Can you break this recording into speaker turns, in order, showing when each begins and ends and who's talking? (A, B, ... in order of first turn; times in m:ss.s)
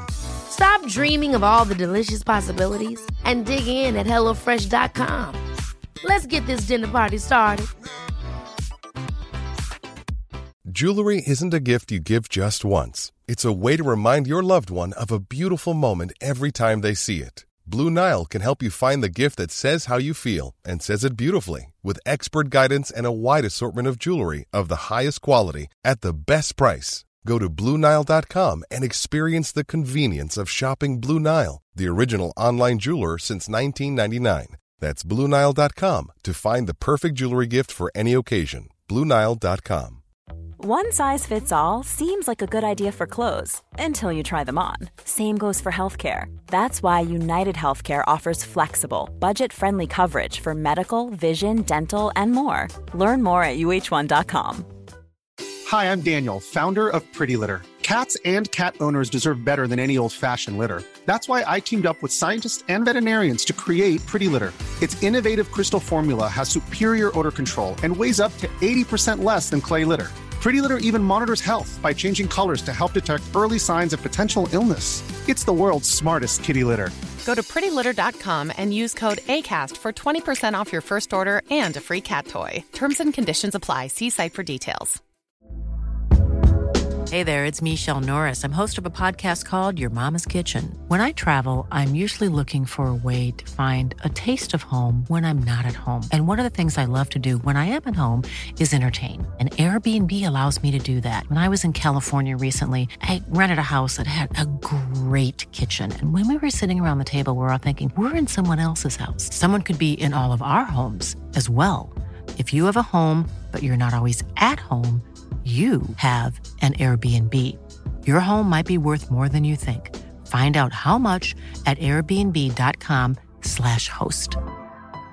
0:00.5-0:05.4 A
0:06.0-0:07.7 A
0:10.7-0:40.0 B
0:40.6-0:54.7 C
0:55.6-1:16.9 D
1:17.2-1:25.0 E
1:27.1-2:04.4 F